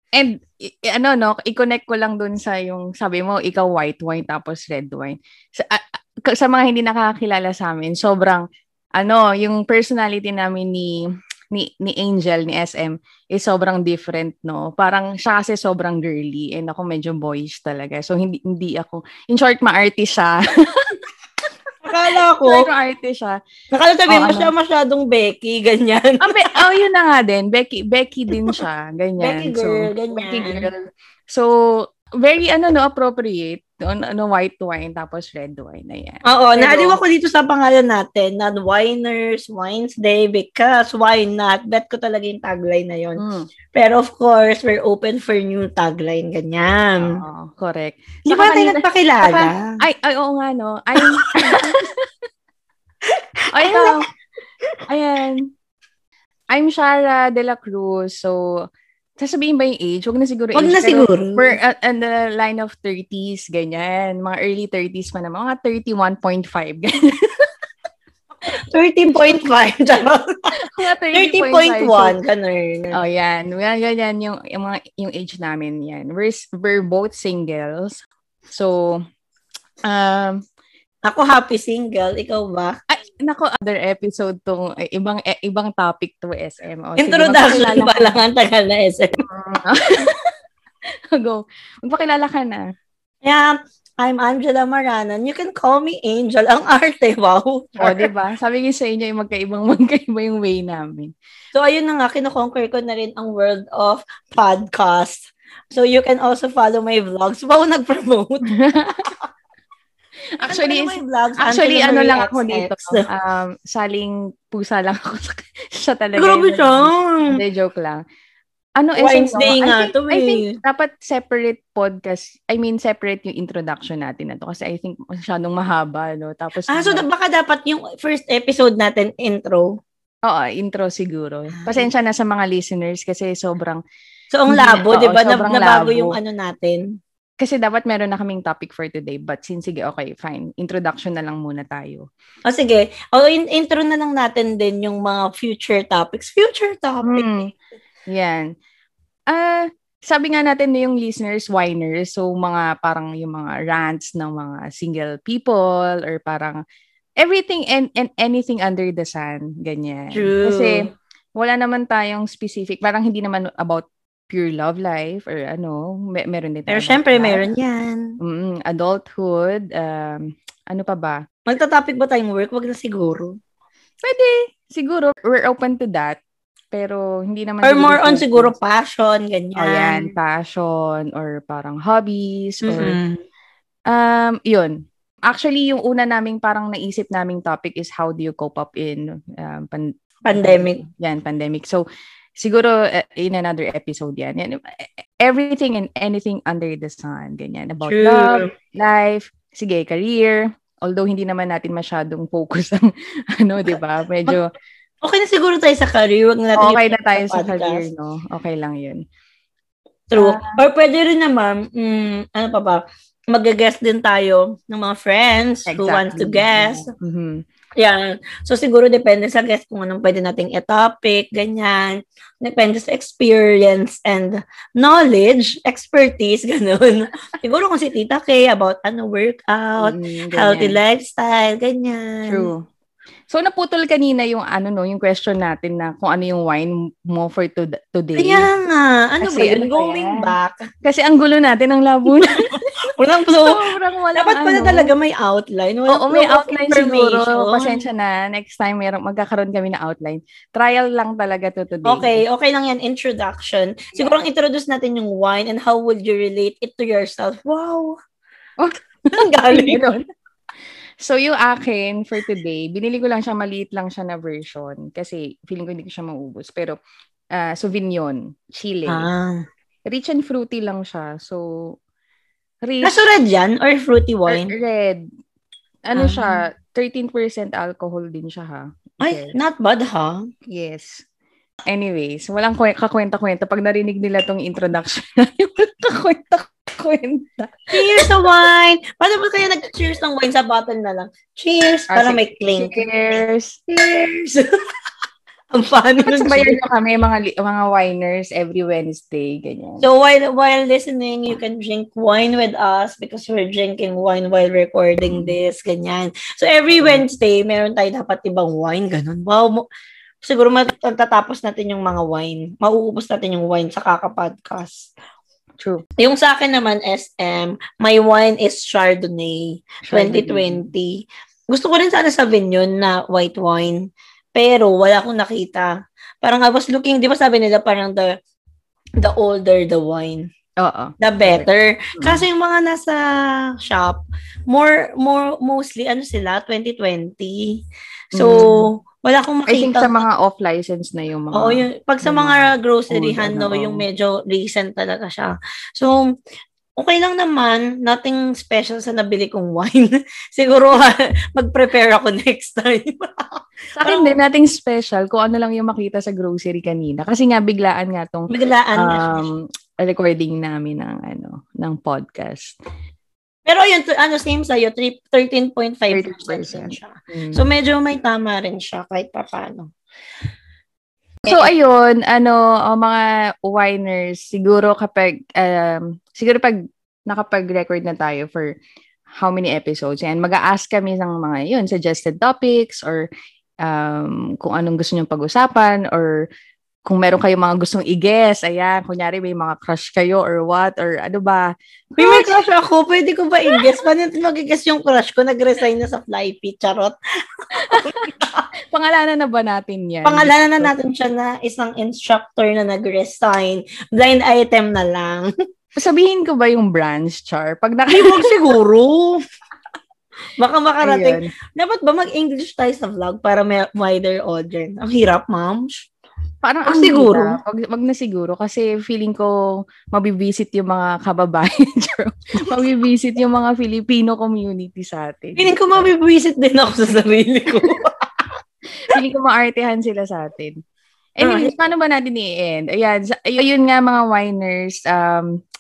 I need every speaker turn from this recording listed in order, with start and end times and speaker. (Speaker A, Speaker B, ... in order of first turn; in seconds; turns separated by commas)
Speaker A: 0.1-8.4, Speaker A: 9.0-10.9, Speaker A: 11.5-20.4, Speaker B: 21.8-22.7, Speaker A: 22.4-23.4, Speaker B: 23.7-26.6, Speaker A: 24.1-24.5, Speaker A: 26.2-37.0, Speaker B: 29.2-30.7, Speaker B: 36.2-43.2, Speaker A: 43.2-43.5, Speaker B: 43.7-47.2, Speaker A: 47.0-52.0, Speaker B: 48.3-49.8, Speaker B: 51.0-51.3, Speaker B: 53.1-54.0, Speaker A: 53.5-54.0, Speaker A: 54.9-55.5, Speaker A: 56.5-58.7, Speaker A: 59.2-67.1, Speaker B: 60.5-61.5, Speaker B: 68.7-70.3, Speaker A: 70.7-72.1, Speaker B: 71.1-73.0, Speaker A: 72.9-79.0, Speaker A: 79.8-80.4, Speaker B: 81.0-82.7, Speaker A: 82.9-88.2, Speaker B: 87.0-89.2, Speaker A: 89.2-90.1, Speaker A: 91.1-92.6, Speaker B: 93.2-98.1, Speaker A: 97.8-101.1, Speaker B: 101.5-108.5, Speaker A: 108.6-109.0, Speaker A: 110.4-118.0, Speaker B: 110.4-113.0, Speaker B: 116.1-117.4, Speaker A: 118.8-127.0, Speaker B: 119.0-120.5, Speaker B: 126.7-129.7, Speaker A: 130.2-133.8, Speaker B: 131.5-131.9, Speaker B: 134.3-136.8, Speaker A: 134.5-136.2, Speaker A: 137.4-142.1, Speaker B: 142.5-147.3, Speaker A: 147.0-147.5, Speaker A: 148.1-148.5, Speaker A: 149.3-156.6, Speaker A: 157.2-167.4, Speaker B: 160.1-160.9, Speaker B: 166.7-168.2, Speaker A: 168.2-171.2, Speaker B: 171.5-173.3, Speaker A: 174.0-176.2, Speaker A: 176.7-178.5, Speaker B: 177.6-180.1, Speaker A: 179.6-183.0, Speaker B: 182.6-183.2, Speaker A: 183.9-184.7, Speaker A: 185.3-191.8, Speaker B: 190.2-190.8, Speaker A: 192.4-202.9, Speaker B: 197.8-198.5, Speaker A: 203.4-204.5, Speaker B: 205.0-207.8, Speaker A: 206.5-209.0, Speaker B: 210.1-216.9, Speaker A: 210.2-210.5, Speaker A: 215.7-217.4, Speaker B: 217.8-232.5, Speaker A: 229.8-230.8, Speaker A: 232.2-232.7, Speaker A: 233.3-238.5, Speaker B: 238.2-240.6, Speaker A: 239.2-240.3, Speaker A: 240.8-242.5, Speaker B: 242.1-243.6, Speaker A: 243.4-244.9, Speaker B: 244.2-247.8, Speaker A: 245.9-252.2, Speaker B: 251.8-258.0, Speaker A: 253.9-254.2, Speaker B: 259.1-259.8, Speaker A: 259.4-260.0, Speaker A: 261.0-266.8, Speaker A: 267.4-269.1, Speaker B: 268.9-269.4, Speaker A: 269.9-271.7, Speaker A: 272.6-273.0, Speaker B: 272.8-274.5, Speaker A: 274.3-275.0, Speaker A: 275.9-279.4, Speaker B: 275.9-276.4, Speaker B: 279.0-280.2, Speaker A: 280.5-281.0, Speaker A: 281.7-288.1, Speaker B: 287.7-294.4, Speaker A: 291.9-293.6, Speaker B: 295.5-296.6, Speaker A: 296.1-299.9, Speaker B: 299.8-309.6, Speaker A: 305.1-305.3, Speaker A: 306.8-307.0, Speaker B: 310.2-314.9, Speaker B: 316.0-325.7, Speaker A: 319.9-320.6, Speaker B: 326.2-328.1, Speaker B: 329.0-330.3, Speaker A: 330.6-331.5, Speaker B: 331.0-337.6, Speaker A: 332.0-332.2, Speaker A: 338.1-338.7, Speaker B: 338.1-340.0, Speaker A: 339.5-343.8, Speaker B: 341.3-346.0, Speaker B: 346.8-354.1, Speaker A: 353.8-362.6, Speaker B: 358.3-359.2, Speaker B: 363.5-369.7, Speaker A: 365.9-367.4, Speaker A: 371.2-376.6, Speaker A: 377.1-378.5, Speaker A: 379.2-383.1, Speaker A: 383.6-386.2, Speaker A: 386.9-392.4, Speaker B: 392.0-396.9, Speaker A: 397.6-398.1, Speaker B: 397.6-398.4, Speaker A: 398.7-400.7, Speaker B: 400.0-405.3, Speaker A: 405.8-408.3, Speaker B: 407.9-409.2, Speaker B: 410.4-415.9, Speaker A: 410.8-411.3, Speaker A: 416.4-419.3, Speaker B: 416.6-417.4, Speaker A: 419.9-425.6, Speaker B: 425.4-427.9, Speaker A: 428.9-430.6, Speaker A: 431.2-435.4, Speaker B: 431.2-431.5